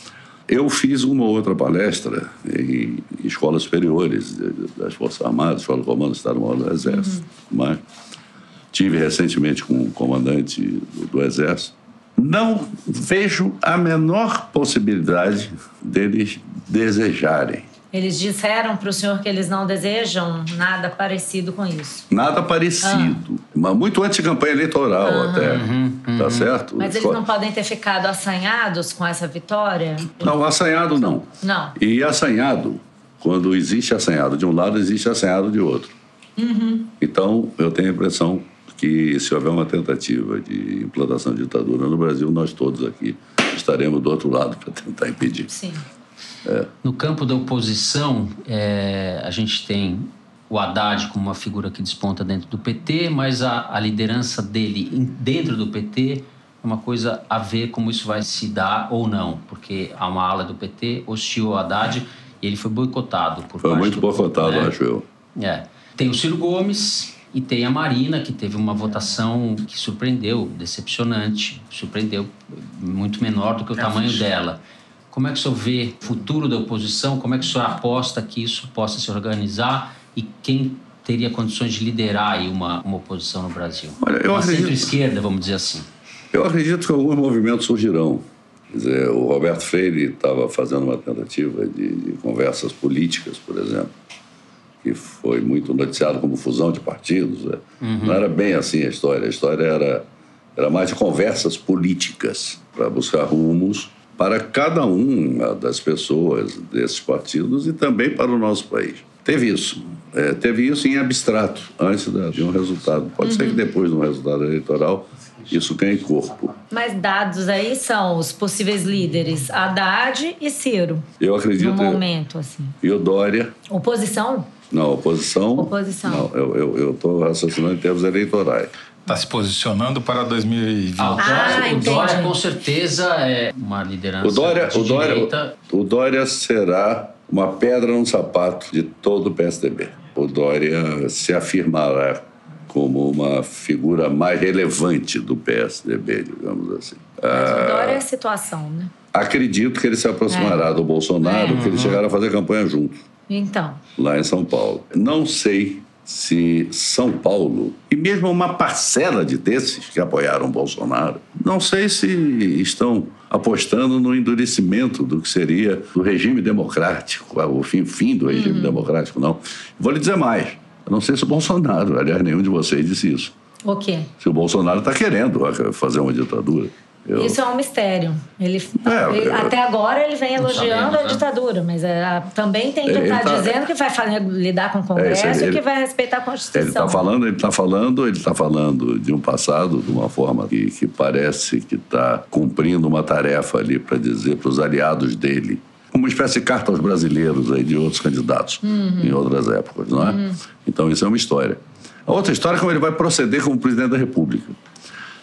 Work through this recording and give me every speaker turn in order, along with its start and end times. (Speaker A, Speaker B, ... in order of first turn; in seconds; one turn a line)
Speaker A: 0.5-7.8
Speaker B: 6.8-7.2
Speaker A: 8.7-17.6
Speaker B: 17.9-22.1
Speaker A: 22.1-27.2
Speaker B: 22.8-23.2
Speaker B: 25.0-25.6
Speaker C: 25.4-26.5
Speaker B: 26.8-30.3
Speaker A: 30.2-35.9
Speaker B: 31.4-31.8
Speaker B: 36.4-36.9
Speaker A: 37.0-45.5
Speaker B: 45.5-45.8
Speaker C: 46.8-64.7
Speaker A: 63.6-65.0
Speaker C: 65.3-74.6
Speaker D: 73.8-74.2
Speaker C: 75.1-85.9
Speaker A: 84.0-84.9
Speaker A: 86.3-93.9
Speaker A: 94.8-100.0
Speaker C: 97.8-98.2
Speaker A: 100.5-116.5
Speaker B: 113.2-113.6
Speaker B: 116.7-121.1
Speaker A: 121.2-122.0
Speaker B: 121.6-122.8
Speaker A: 122.8-123.5
Speaker B: 123.7-124.5
Speaker A: 124.7-128.7
Speaker B: 125.5-126.3
Speaker D: 129.1-131.8
Speaker C: 131.0-135.5
Speaker B: 131.2-132.3
Speaker A: 134.2-148.0
Speaker B: 147.3-148.9
Speaker A: 149.1-152.9
Speaker B: 150.3-150.7
Speaker B: 151.2-151.6
Speaker C: 151.5-152.0
Speaker B: 153.3-153.8
Speaker A: 154.0-173.3
Speaker B: 168.3-168.8
Speaker B: 173.6-174.1
Speaker A: 174.2-177.4
Speaker B: 177.1-187.1
Speaker A: 178.8-179.5
Speaker C: 180.4-181.2
Speaker A: 182.8-183.6
Speaker A: 184.9-185.6
Speaker A: 186.5-204.6
Speaker B: 198.6-199.2
Speaker B: 200.0-200.4